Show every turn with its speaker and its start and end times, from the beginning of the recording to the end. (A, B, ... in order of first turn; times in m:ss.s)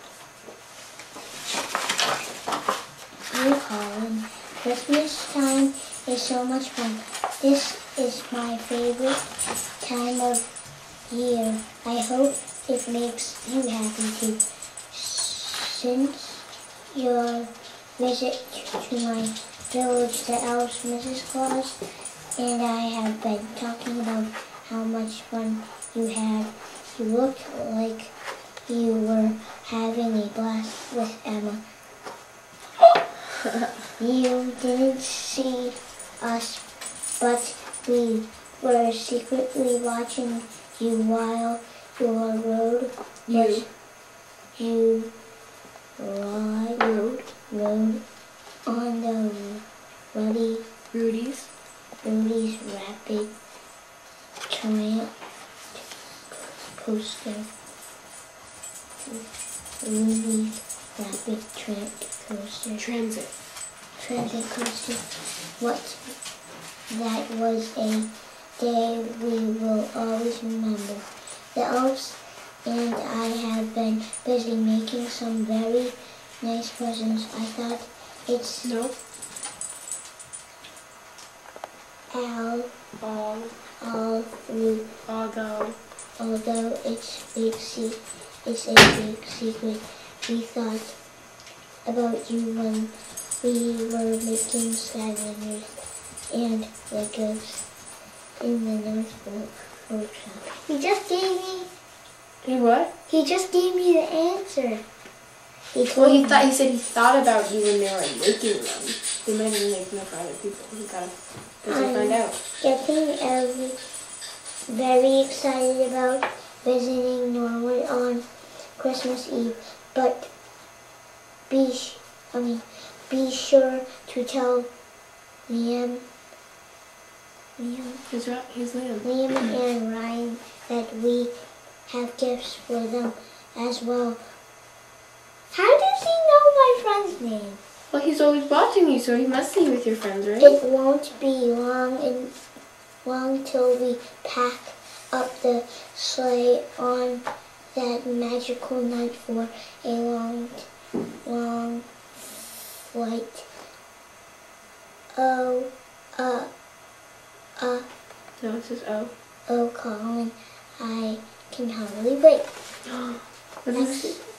0:03.3-0:09.3 A
0:09.8-0:10.5 A
0:11.1-0:21.8 A
0:22.4-0:28.1 A
0:28.7-0:31.6 A
0:34.0-0:36.6 A
0:37.2-0:43.7 A
0:43.3-0:43.7 B
0:44.6-0:45.1 A
0:46.0-0:46.8 A
0:46.8-0:47.3 B
0:47.5-0:48.0 A
0:48.7-0:50.7 A
0:50.9-0:51.5 B
0:52.0-0:53.3 A
0:54.5-0:55.1 A
0:55.8-0:57.5 A
0:59.8-1:02.9 A
1:02.8-1:03.3 B
1:04.0-1:06.1 A
1:06.9-1:18.7 A
1:18.6-1:19.0 B
1:22.1-1:22.7 A
1:23.0-1:23.6 B
1:23.8-1:24.9 A
1:25.1-1:25.8 B
1:26.2-1:31.0 A
1:31.9-1:37.6 A
1:38.4-1:41.7 A
1:42.4-1:42.9 B
1:43.1-1:44.8 A
1:45.7-1:46.5 A
1:45.9-1:52.4 B
1:51.7-1:53.8 A
1:54.7-2:00.3 A
2:01.5-2:04.7 A
2:05.5-2:06.1 A
2:07.6-2:08.1 A
2:08.1-2:09.1 B
2:09.0-2:11.3 A
2:11.9-2:14.2 A
2:15.5-2:17.6 A
2:17.9-2:20.6 B
2:20.4-2:22.3 A
2:23.0-2:30.7 A
2:31.2-2:31.9 A
2:32.9-2:33.5 A
2:35.2-2:36.5 A
2:37.6-2:37.9 A
2:38.4-2:39.1 B
2:39.5-2:42.5 A
2:42.9-2:44.2 B
2:43.7-2:44.2 A